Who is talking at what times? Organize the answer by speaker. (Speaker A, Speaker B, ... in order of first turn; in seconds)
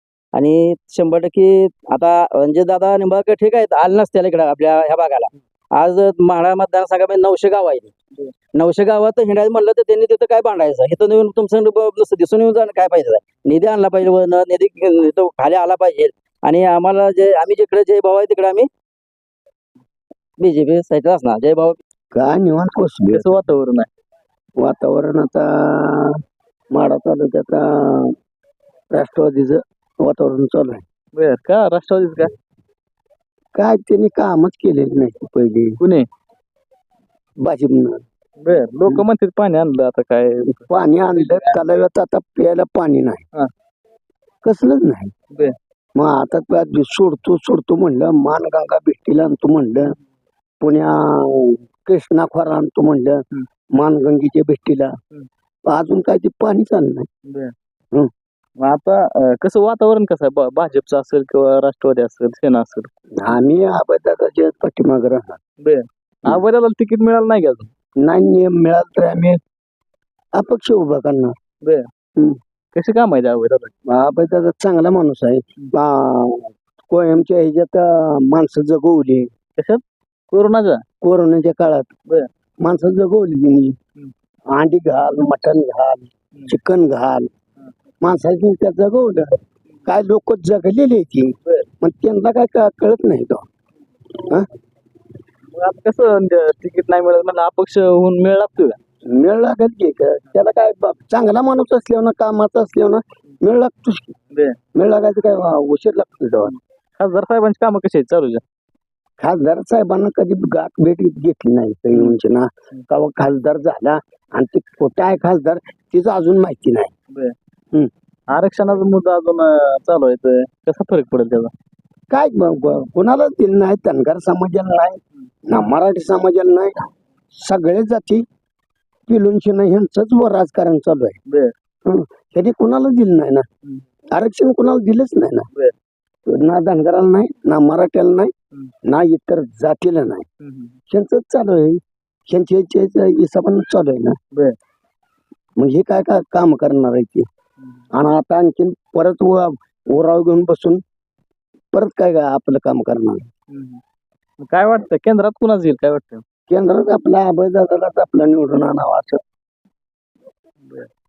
Speaker A: 0.3-7.9, 8.5-18.7, 20.4-21.8
Speaker B: 22.1-23.4, 24.6-28.1, 28.9-30.8, 33.5-35.8, 37.4-38.0, 40.7-43.2, 44.4-45.1, 45.9-49.9, 50.6-54.9, 55.7-57.1, 63.2-65.4, 68.0-69.4, 70.3-71.3, 73.8-79.3, 81.0-81.9, 82.6-83.8, 84.5-87.3, 88.0-93.5, 94.2-94.5, 99.1-104.1, 104.7-106.5, 109.2-116.9, 122.1-128.2, 129.1-131.2, 131.8-133.5, 134.1-135.5, 136.3-138.3, 138.8-140.3, 140.9-144.2, 145.6-147.3, 147.9-150.8, 151.7-153.3, 156.5-159.2
Speaker C: 23.1-23.9, 31.1-32.3, 35.8-36.1, 38.4-41.6, 57.3-57.5, 58.6-62.9, 65.6-67.7, 72.7-73.7, 79.6-80.8, 95.5-98.8, 104.3-104.6, 106.5-108.4, 118.3-121.5, 140.4-140.7, 153.5-153.8, 154.4-156.2